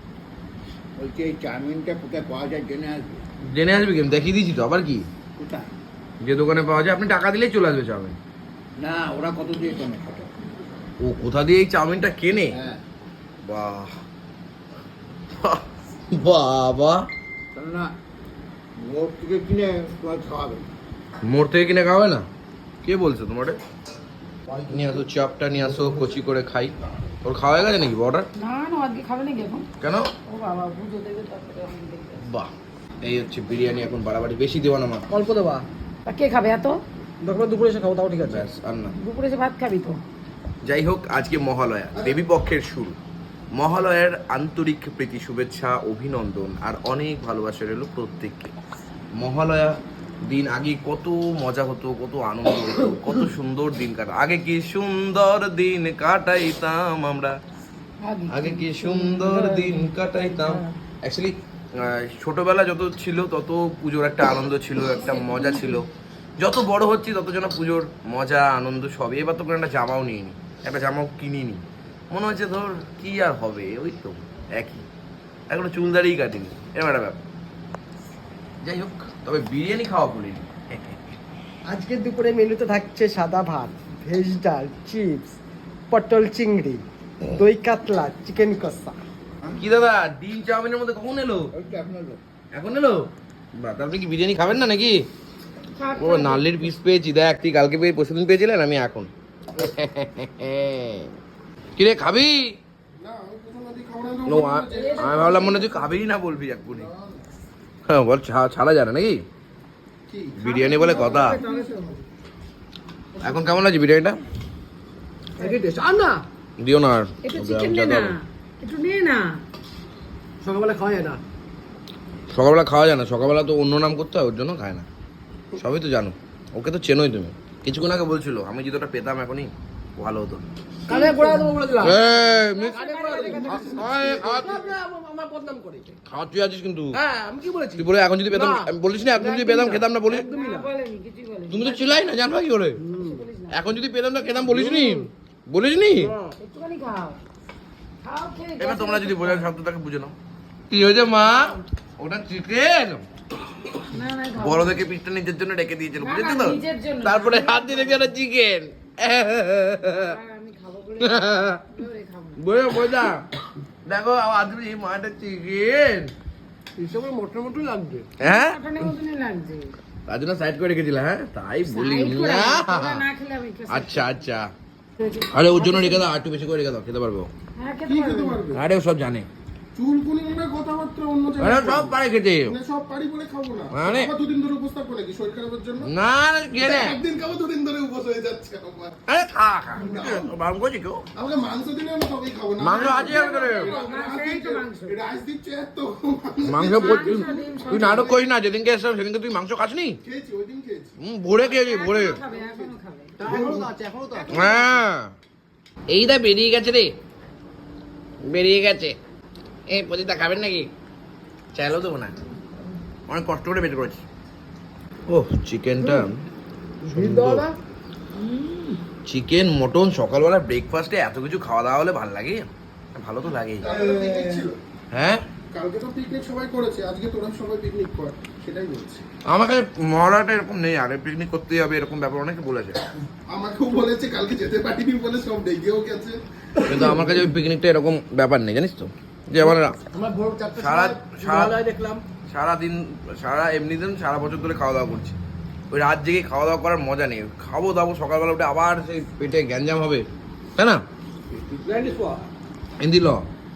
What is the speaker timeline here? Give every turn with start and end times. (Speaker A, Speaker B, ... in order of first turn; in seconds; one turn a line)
Speaker A: 1.0-3.2
Speaker B: 3.5-5.1
Speaker B: 6.2-8.2
Speaker A: 8.8-10.3
Speaker B: 11.0-12.6
Speaker A: 12.5-12.8
Speaker B: 13.4-13.9
Speaker B: 15.3-17.1
Speaker A: 17.5-17.9
Speaker A: 18.8-20.7
Speaker B: 21.2-22.3
Speaker B: 22.8-23.6
Speaker B: 24.7-28.3
Speaker C: 28.4-29.7
Speaker B: 29.8-30.1
Speaker C: 30.3-32.2
Speaker B: 32.2-32.5
Speaker B: 33.0-35.1
Speaker D: 35.1-35.6
Speaker C: 36.1-36.8
Speaker D: 37.2-38.5
Speaker B: 38.2-39.0
Speaker C: 39.0-40.0
Speaker B: 40.6-43.0
Speaker B: 43.6-48.5
Speaker B: 49.2-57.4
Speaker C: 58.0-60.7
Speaker B: 58.3-65.9
Speaker C: 64.8-65.8
Speaker B: 66.4-74.9
Speaker B: 75.5-77.2
Speaker B: 78.6-81.0
Speaker D: 81.7-85.4
Speaker D: 85.9-89.0
Speaker B: 89.6-91.5
Speaker A: 91.6-92.2
Speaker B: 92.5-93.0
Speaker B: 93.6-95.0
Speaker C: 95.8-96.5
Speaker B: 96.0-101.1
Speaker B: 101.8-102.5
Speaker E: 103.0-105.9
Speaker B: 104.3-106.9
Speaker C: 104.7-105.9
Speaker E: 106.7-107.3
Speaker B: 107.9-109.2
Speaker E: 110.1-112.0
Speaker B: 110.4-111.4
Speaker C: 110.5-112.0
Speaker B: 113.2-114.2
Speaker D: 115.4-116.2
Speaker B: 116.6-118.2
Speaker C: 117.2-119.4
Speaker D: 120.4-121.2
Speaker B: 122.3-124.9
Speaker B: 125.6-130.5
Speaker D: 130.9-132.0
Speaker C: 130.9-134.2
Speaker B: 131.8-132.9
Speaker D: 132.7-136.0
Speaker E: 133.1-134.8
Speaker B: 133.5-134.7
Speaker B: 136.1-137.0
Speaker D: 137.0-140.7
Speaker B: 137.8-140.3
Speaker C: 140.1-142.1
Speaker B: 141.5-142.8
Speaker D: 142.8-143.2
Speaker C: 142.9-143.8
Speaker B: 143.5-146.1
Speaker D: 144.5-145.0
Speaker D: 146.0-146.3
Speaker C: 146.4-147.2
Speaker C: 148.0-149.5
Speaker B: 148.6-150.2
Speaker B: 150.7-153.1
Speaker C: 151.2-151.6
Speaker C: 153.8-154.8
Speaker B: 154.4-160.2
Speaker C: 156.0-158.1
Speaker C: 159.8-162.8
Speaker B: 161.0-161.6
Speaker B: 162.4-163.2
Speaker B: 163.9-166.1
Speaker D: 166.8-168.1
Speaker B: 168.2-168.9
Speaker C: 168.2-169.7
Speaker B: 170.1-173.1
Speaker C: 171.6-174.2
Speaker B: 173.7-174.5
Speaker C: 175.0-176.1
Speaker B: 175.3-177.3
Speaker C: 177.6-178.4
Speaker E: 177.9-178.6
Speaker B: 178.6-179.3
Speaker E: 179.8-185.9
Speaker B: 181.4-182.6
Speaker B: 183.7-184.1
Speaker B: 185.8-187.0
Speaker E: 186.6-189.0
Speaker B: 189.1-191.0
Speaker E: 189.8-190.3
Speaker E: 191.2-198.2
Speaker B: 192.6-193.8
Speaker C: 192.8-195.0
Speaker B: 196.5-200.0
Speaker C: 196.7-198.2
Speaker E: 200.0-200.9
Speaker B: 201.0-202.2
Speaker C: 201.4-203.4
Speaker E: 202.3-204.5
Speaker D: 203.2-204.7
Speaker B: 204.3-205.1
Speaker B: 205.9-206.9
Speaker B: 208.2-209.0
Speaker B: 209.7-210.7
Speaker B: 211.5-212.2
Speaker B: 213.1-214.1
Speaker B: 215.1-216.2
Speaker D: 216.8-217.5
Speaker B: 216.9-217.5
Speaker B: 219.1-223.7
Speaker E: 223.6-224.6
Speaker D: 223.6-224.5
Speaker B: 224.9-225.2
Speaker E: 225.5-229.1
Speaker B: 229.3-232.8
Speaker E: 233.3-236.2
Speaker B: 236.7-239.8
Speaker D: 239.9-242.0
Speaker B: 240.6-241.6
Speaker B: 242.3-245.2
Speaker B: 245.7-250.0
Speaker B: 250.6-250.8
Speaker D: 251.3-252.3
Speaker B: 252.8-253.2